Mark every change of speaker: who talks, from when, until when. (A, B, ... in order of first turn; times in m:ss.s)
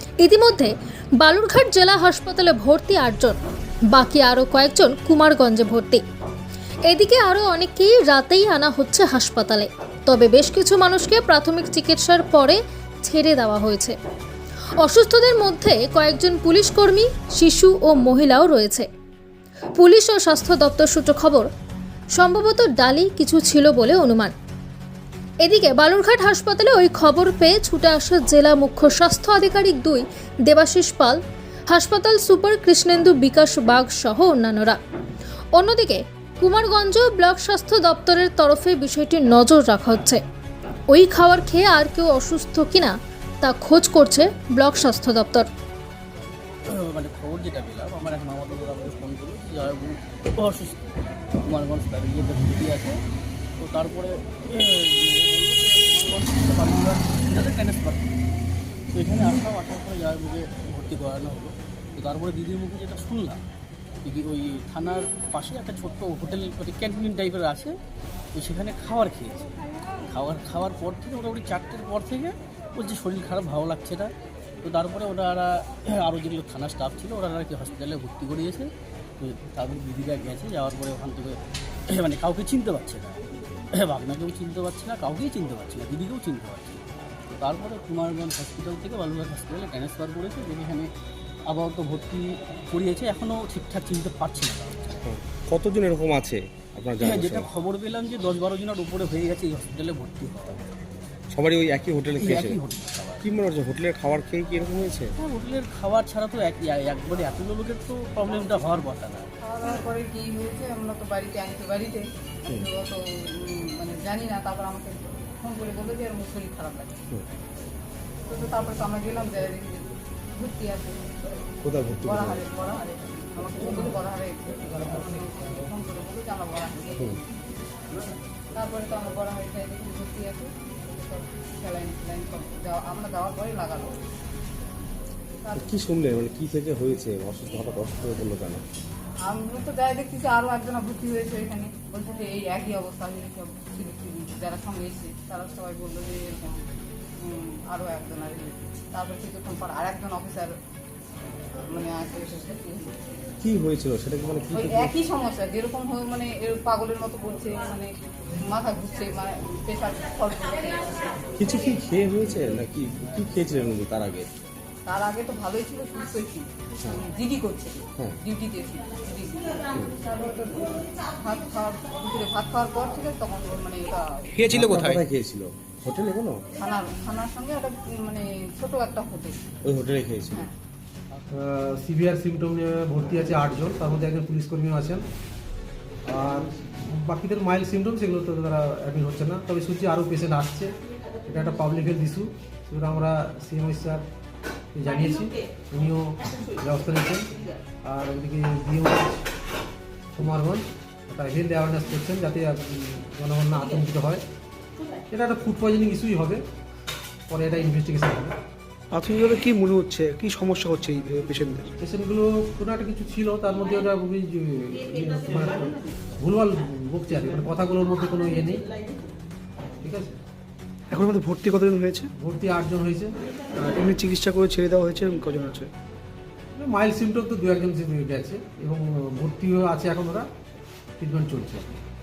0:00.2-0:03.4 A
0:03.9-0:06.0 A
0:06.9-0:14.0 A
0:14.8-0:18.9 A
0:19.8-0:21.5 A
0:22.2-0:24.3 A
0:25.4-0:31.2 A
0:31.7-0:34.8 A
0:35.6-0:40.2 A
0:40.9-0:45.5 A
0:46.7-0:50.8 B
0:51.4-0:53.0 B
0:53.6-0:58.2 B
0:58.9-1:03.4 B
1:04.0-1:07.8 B
1:08.4-1:09.4 B
1:10.0-1:14.1 B
1:14.6-1:23.2 B
1:23.7-1:26.8 B
1:27.4-1:30.9 B
1:31.5-1:35.0 B
1:35.0-1:37.5 C
1:37.0-1:40.7 B
1:41.3-1:42.6 C
1:42.2-1:43.3 B
1:43.2-1:45.1 C
1:45.2-1:49.3 B
1:49.4-1:57.0 D
1:58.3-2:01.1 D
2:01.6-2:02.4 C
2:02.0-2:07.2 D
2:08.5-2:14.0 D
2:15.4-2:15.7 D
2:15.5-2:18.6 C
2:19.2-2:26.6 D
2:27.2-2:30.5 D
2:31.7-2:33.0 D
2:33.4-2:34.9 C
2:34.5-2:41.3 D
2:41.4-2:44.3 C
2:44.8-2:54.9 D
2:54.5-2:56.4 C
2:56.6-2:59.4 D
2:59.6-3:00.5 C
3:01.3-3:05.0 E
3:06.0-3:14.0 E
3:14.7-3:17.3 E
3:17.8-3:19.2 E
3:20.1-3:24.2 E
3:25.1-3:26.4 E
3:27.3-3:28.3 E
3:28.9-3:31.7 F
3:31.8-3:38.7 E
3:39.8-3:40.2 E
3:40.9-3:42.1 F
3:42.2-3:43.8 E
3:43.7-3:45.7 F
3:46.5-3:50.3 E
3:51.0-3:51.7 E